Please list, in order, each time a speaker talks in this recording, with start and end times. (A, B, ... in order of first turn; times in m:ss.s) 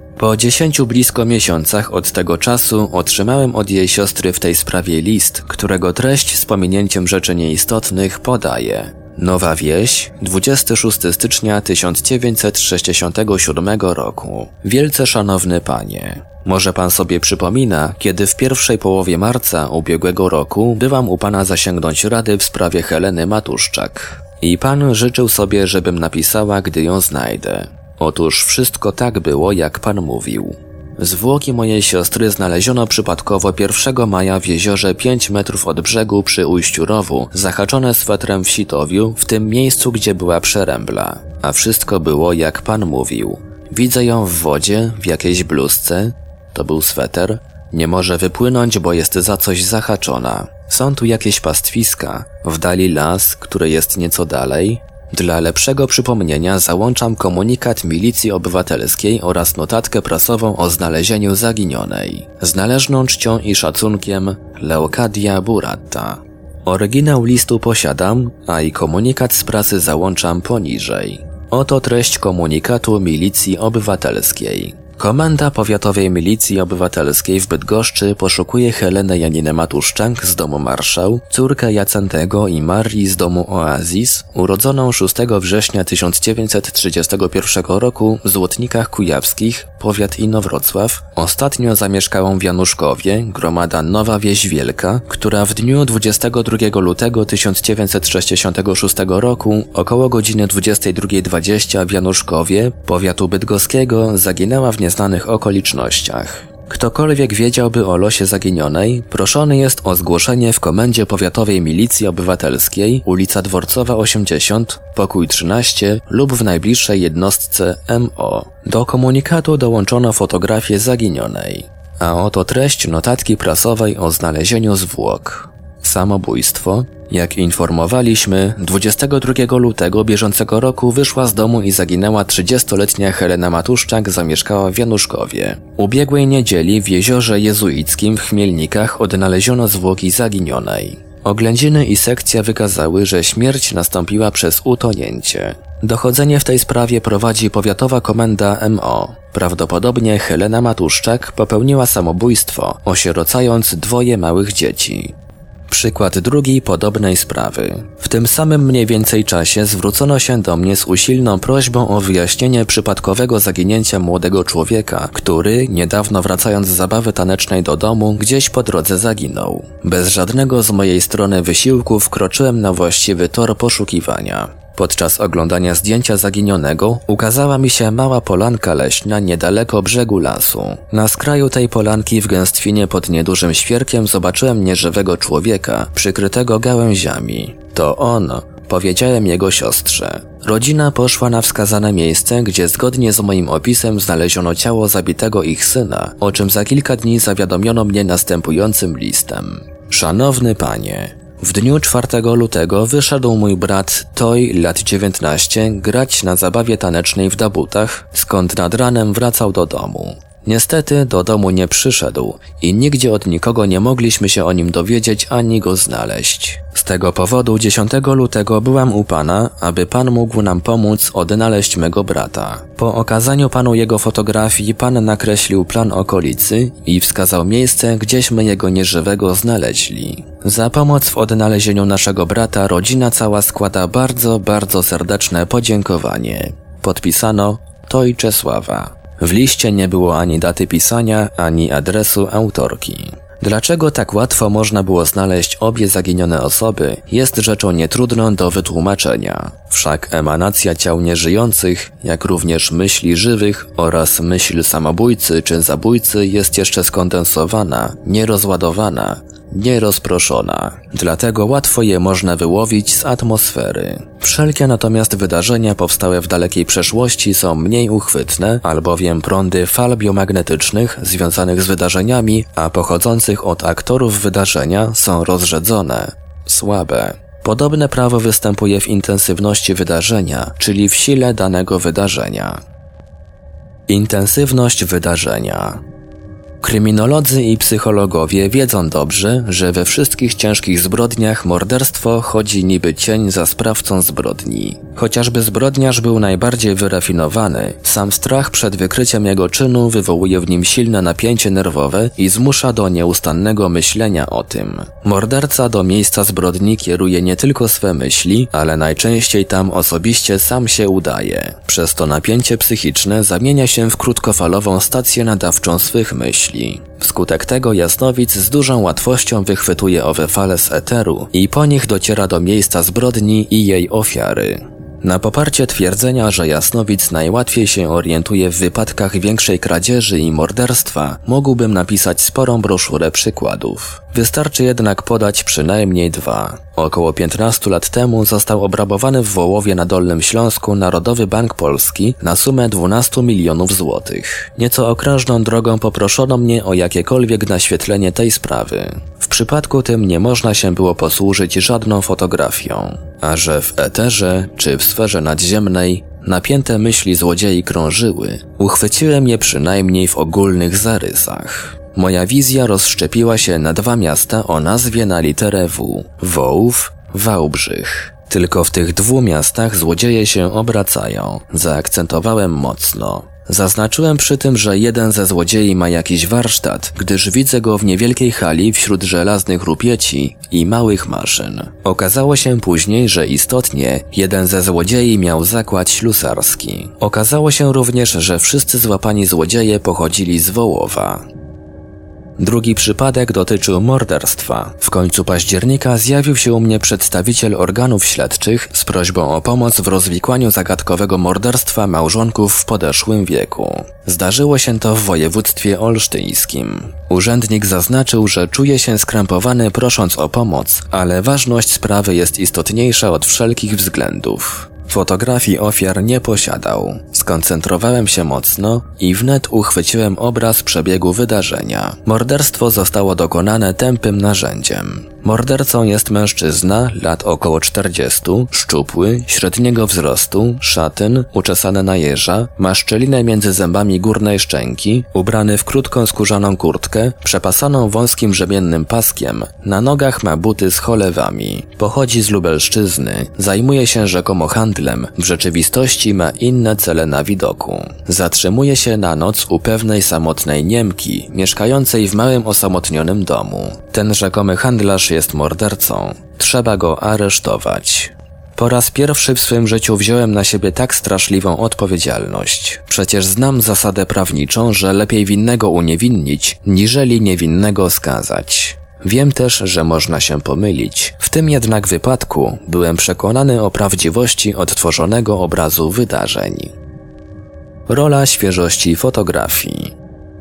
0:00.2-2:35.1 A
2:35.7-4:42.6 A
4:43.9-4:45.8 A
4:46.6-6:31.2 A
6:32.4-7:56.7 A
7:57.9-7:59.9 A